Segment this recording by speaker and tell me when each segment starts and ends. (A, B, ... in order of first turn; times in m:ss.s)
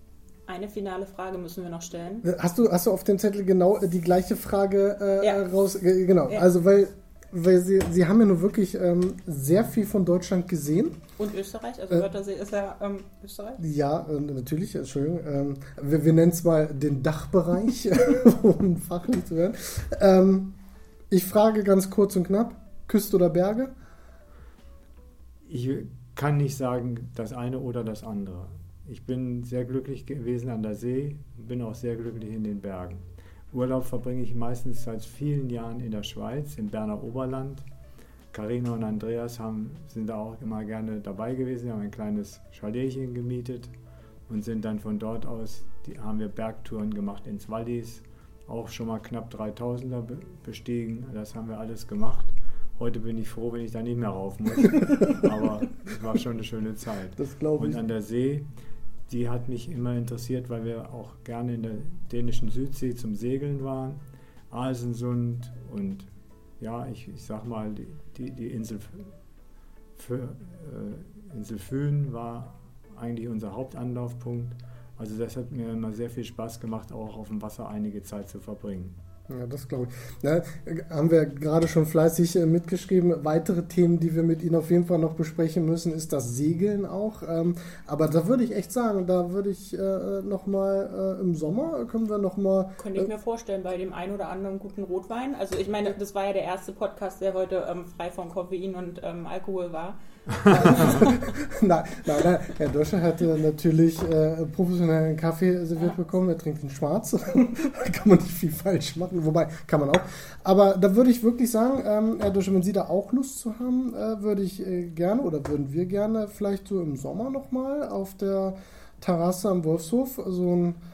0:00.5-0:02.2 A
0:02.2-0:11.0 B
0:11.2-0:13.6 A
0:13.6-0:20.6 B
0:21.1-0:23.7 B
0:25.4-0:37.6 C
0:38.3-0:43.7 C
0:44.3-0:58.5 C
0:57.2-0:57.8 B
0:59.1-1:09.1 C
1:10.0-1:19.0 C
1:19.3-1:33.1 B
1:32.8-1:41.2 A
1:40.7-2:00.8 B